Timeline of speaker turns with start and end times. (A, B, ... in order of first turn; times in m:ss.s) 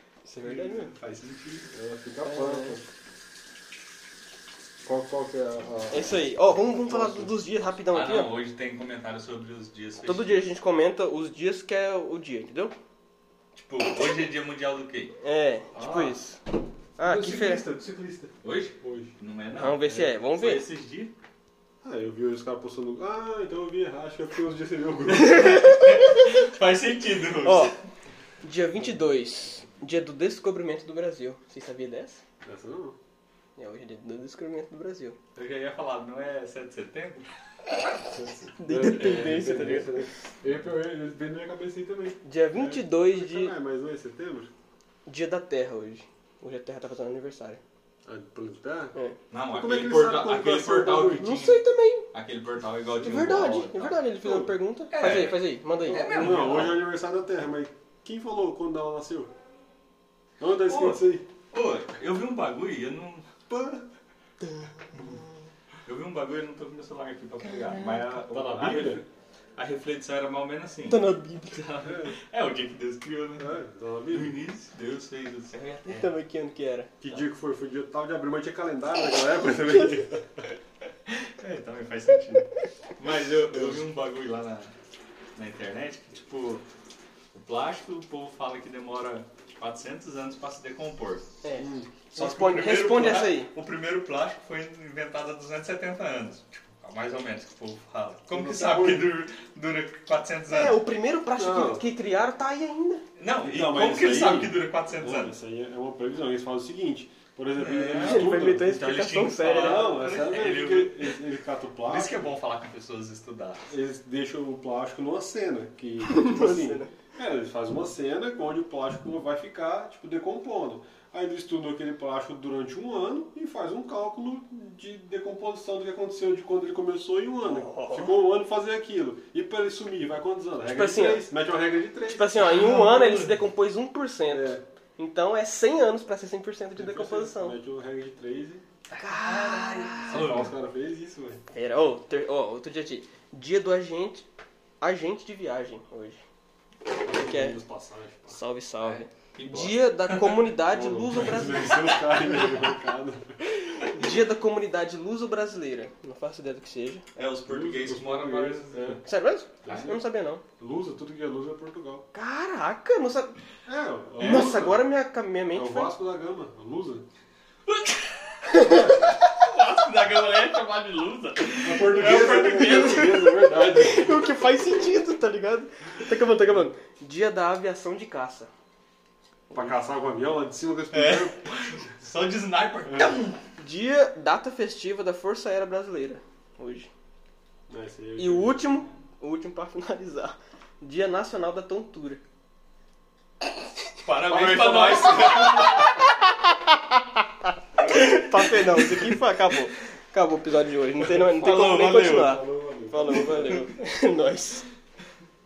0:00.2-0:00.9 A
0:00.4-0:01.7 B
0:01.7-0:02.9 C
0:02.2-0:02.8 A
0:04.8-0:07.4 C
0:05.9-0:08.4 A
0:07.9-0:10.5 B
0:10.0-0:12.7 A
0:13.6-0:15.1 B
0:15.2-0:16.4 A
0:15.7-0:16.2 C
0:17.0-0:17.7 A
0:17.0-0:19.1 C
0:18.4-0:21.1 B
0:19.5-0:20.6 A
0:21.8-0:25.8 C
0:25.3-0:27.7 B
0:27.4-0:27.7 A
0:28.4-0:32.2 A
0:32.4-0:33.0 C
0:33.6-0:35.2 A
0:35.4-0:37.2 B
0:38.1-0:44.5 C
0:38.6-0:40.1 A
0:42.2-0:43.5 A
0:45.1-0:47.6 A
0:48.0-0:49.0 C
0:49.3-0:56.9 B
0:49.5-0:51.3 C
0:51.1-0:52.1 A
0:53.0-0:56.1 A
0:55.9-0:59.3 C
1:00.4-1:01.2 C
1:00.6-1:03.3 B
1:03.5-1:03.8 C
1:05.8-1:13.6 B
1:08.2-1:09.0 C
1:10.9-1:11.6 A
1:11.8-1:12.1 C
1:13.4-1:14.4 C
1:14.1-1:16.1 B
1:15.8-1:16.9 A
1:17.0-1:20.4 C
1:21.1-1:24.7 B
1:23.5-1:23.8 C
1:25.4-1:26.6 B
1:27.3-1:31.2 B
1:31.4-1:33.5 A
1:31.6-1:31.9 C
1:32.1-1:40.8 B
1:38.3-1:39.2 C
1:40.5-1:43.0 A
1:41.4-1:41.8 C
1:43.2-1:45.3 B
1:43.4-1:48.7 C
1:47.5-1:51.2 B
1:48.0-1:50.0 A
1:49.5-1:52.3 C
1:51.8-1:53.7 B
1:53.7-2:12.6 C
1:56.0-1:56.9 A
2:07.4-2:08.2 A
2:10.7-2:11.3 A
2:12.1-2:17.6 A
2:12.4-2:13.3 B
2:14.3-2:14.6 C
2:16.7-2:18.6 C
2:18.9-2:20.5 B
2:19.0-2:20.3 A
2:20.1-2:21.4 C
2:21.5-2:24.3 A
2:24.8-2:26.2 A
2:27.0-2:28.4 C
2:27.1-2:27.6 A
2:28.3-2:32.4 A
2:28.8-2:30.5 B
2:30.6-2:33.4 C
2:33.5-2:37.0 A
2:37.2-2:39.0 B
2:37.5-2:39.0 C
2:39.0-2:40.4 A
2:39.6-2:40.0 C
2:40.6-2:42.1 C
2:42.1-2:43.4 A
2:43.6-2:44.8 C
2:44.2-2:44.7 B
2:44.2-2:45.9 A
2:45.5-2:47.1 C
2:47.6-2:53.3 B
2:48.5-2:49.1 C
2:51.6-2:54.3 C
2:52.3-2:58.5 A
2:59.5-3:01.8 C
3:00.9-3:03.4 B
3:02.8-3:03.2 C
3:03.6-3:06.9 A
3:07.7-3:08.6 C
3:08.2-3:12.2 A
3:14.0-3:15.9 B
3:14.2-3:15.7 C
3:15.4-3:17.2 A
3:17.8-3:19.2 B
3:17.8-3:24.7 A
3:21.1-3:22.4 B
3:21.9-3:23.6 C